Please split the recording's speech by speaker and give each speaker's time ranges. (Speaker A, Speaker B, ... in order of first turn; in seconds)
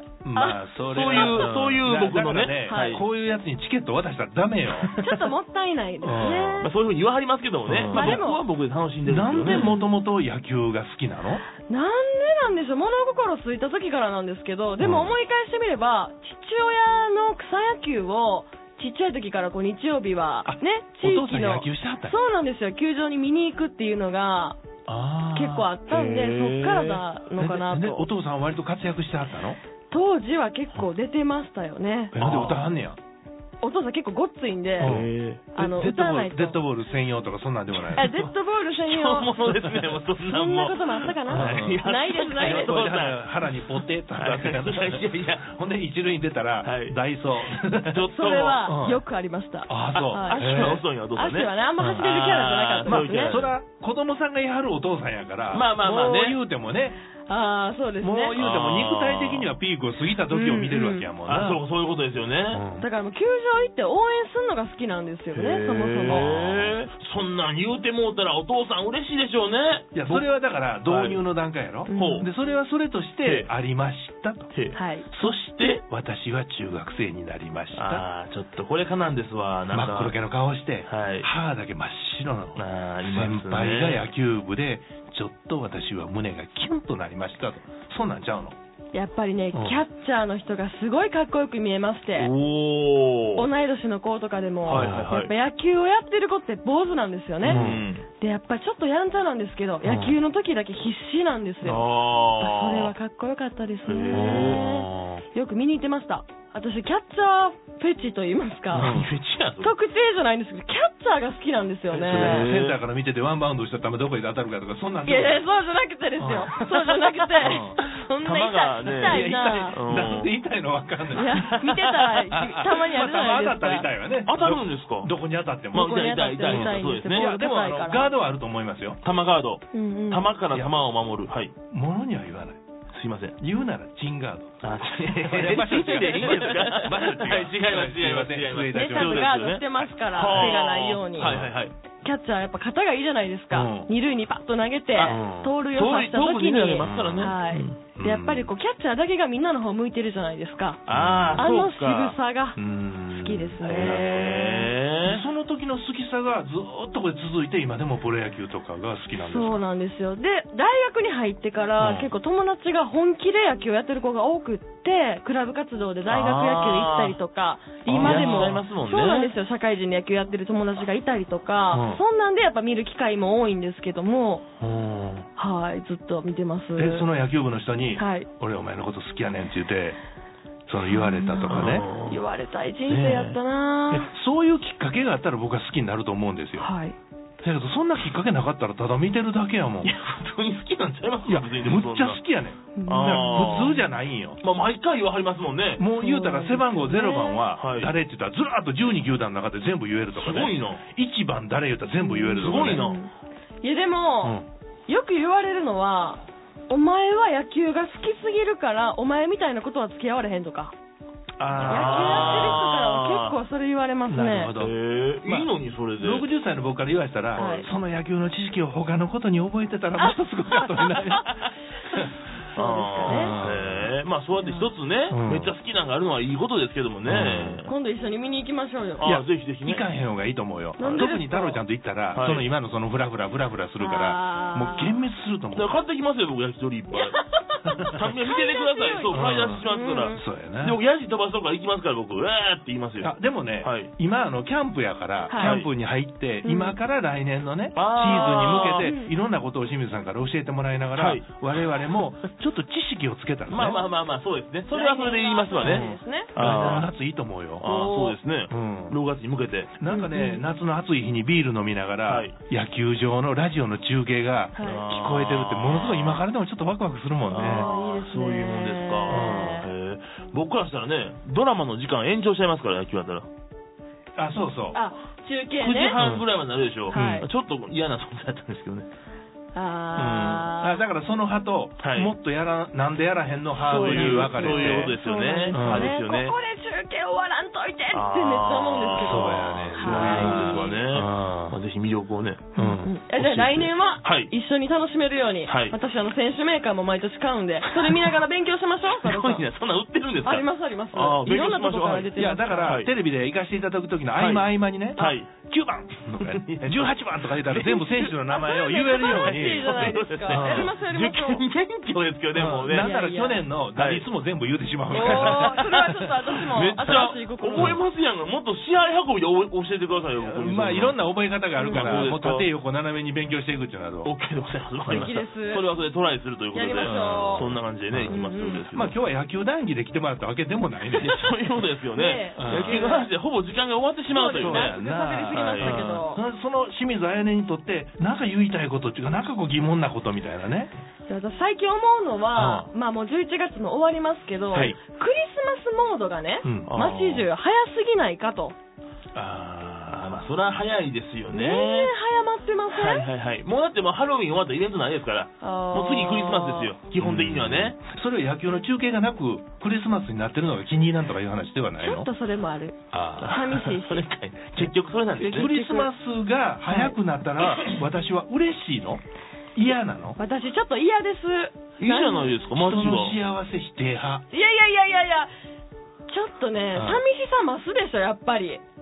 Speaker A: 0.2-4.9, 6.0-6.7, 7.7-8.2, 9.0-11.4, 14.8-15.1, 20.4-22.1, 24.9-25.7, 27.4-29.6, 32.1-33.0, 34.8-38.1, 41.3-41.8, 42.4-48.0, 48.6-49.0, 49.7-50.8, 51.8-52.0, 52.8-57.0, 58.0-61.6, 62.5-62.9, 66.0-66.8, 69.9-74.5, 75.1-78.0, 79.7-88.5, 89.5-89.8, 94.7-95.1, 97.4-97.8, 99.8-100.1, 104.1-105.2, 108.7-109.1, 111.9-115.4, 116.2-116.8, 117.4-117.8, 119.0-121.6, 122.3-129.0, 130.5-130.8, 131.7-132.6, 133.4-139.6, 140.2-140.6, 141.2-141.5, 143.5-143.9, 145.0-145.5, 146.8-148.5, 150.9-151.5, 152.6-154.2, 155.0-159.6, 161.8-162.1, 167.8-168.6, 171.7-172.0, 174.6-175.3, 176.8-180.0, 180.7-181.9, 182.9-183.4, 183.9-186.7, 187.4-189.9, 191.2-194.4, 195.8-202.8, 204.2-204.5, 211.4-212.6, 214.1-221.4, 223.1-223.9, 225.1-225.5, 227.0-227.6, 229.0-235.8, 239.1-240.8, 243.0-253.8, 255.6-257.6, 258.5-259.0, 259.8-267.7, 269.1-269.6, 274.2-274.8, 276.0-276.2, 276.9-277.2, 279.9-284.9, 285.5-285.9, 288.9-291.6, 292.6-293.7, 302.1-310.7, 312.3-317.8, 320.2-324.1, 326.8-328.2, 328.7-331.2, 332.4-332.8, 334.3-340.7, 342.3-342.7, 346.4-346.7, 357.0-362.1, 362.9-363.4, 365.3-369.0, 369.5-370.2, 372.5-374.2, 376.7-377.0
Speaker B: 0.3-1.5, 2.6-3.0, 5.0-6.7, 7.9-8.4, 9.5-9.9, 11.7-24.6, 25.3-28.1, 29.9-32.2, 33.6-35.0, 35.5-36.6, 37.9-42.9, 48.1-53.4, 57.3-58.4, 60.3-61.1, 62.8-66.3, 71.9-72.3, 74.7-75.1, 88.9-92.3, 93.4-97.6, 98.2-109.0, 109.6-112.5, 115.0-120.1, 121.1-123.9, 125.7-128.1, 129.7-130.3, 135.7-137.1, 138.7-141.3, 142.0-150.8, 151.4-154.7, 159.1-174.4, 175.4-177.1, 178.0-178.3, 180.9-184.1, 186.6-186.9, 192.8-193.9, 196.0-197.5, 202.0-203.1, 203.6-204.3, 204.9-210.7, 211.7-214.5, 217.3-217.7, 220.0-220.9, 222.5-223.3, 224.3-224.7, 227.6-229.1, 230.8-231.6, 233.8-235.0, 236.9-240.2, 245.3-245.6, 246.4-246.8, 248.1-249.1, 254.7-256.7, 257.6-258.2, 259.9-260.4, 264.6-264.8, 267.4-269.7, 274.7-276.0, 276.9-277.3, 279.5-280.8, 283.6-290.8, 292.6-299.5, 300.2-302.8, 308.3-311.4, 312.6-313.4, 314.9-317.8, 321.6-322.1, 324.9-325.6, 326.5-327.5, 328.1-328.7, 331.1-331.4, 331.9-333.1, 334.1-336.2, 341.1-348.6, 351.3-353.1, 355.4-356.7, 361.8-362.8, 363.3-364.1, 365.2-365.9, 366.7-367.0, 370.2-372.4, 374.3-375.3, 376.1-378.6
Speaker C: 0.9-3.0, 6.6-9.7, 25.9-27.0, 32.2-32.6, 34.8-35.4, 37.9-43.2, 44.1-45.4, 46.6-47.0, 47.9-48.7, 49.9-53.5, 55.5-56.4, 58.4-59.5, 61.2-62.6, 65.3-70.3, 70.9-71.2, 71.9-72.3, 73.2-73.5, 74.5-75.8, 77.7-80.2, 80.9-81.3, 82.5-84.1, 92.1-93.5, 94.7-95.3, 97.4-98.0, 101.6-102.9, 103.8-104.6, 108.7-109.7, 112.0-112.8, 118.2-120.3, 121.2-122.3, 124.2-125.1, 125.7-127.3, 129.0-131.5, 132.9-133.3, 134.6-141.7, 144.9-145.2, 145.7-147.8, 150.9-152.2, 153.6-155.2, 166.1-167.2, 167.9-169.3, 181.5-182.2, 189.8-192.2, 192.9-193.8, 194.4-195.8, 197.6-197.9, 200.2-200.8, 202.4-203.0, 211.4-213.3, 214.6-216.2, 217.3-217.7, 222.6-227.7, 229.0-229.8, 230.8-231.1, 232.1-232.4, 235.5-237.2, 237.9-243.9, 245.4-245.7, 247.7-248.9, 250.9-252.0, 253.5-256.9, 257.6-259.7, 262.1-262.3, 264.6-266.2, 267.3-273.3, 275.6-278.9, 281.8-282.1, 283.6-286.4, 287.9-292.5, 294.0-294.3, 295.4-295.8, 297.6-298.1, 298.9-302.1, 304.1-305.3, 306.2-308.1, 308.9-312.9, 313.7-314.1, 314.9-315.8, 316.4-321.0, 321.7-322.5, 324.0-328.9, 330.9-334.8, 335.3-336.0, 346.7-347.3, 349.1-351.9, 352.7-357.8, 363.2-365.5, 371.8-373.2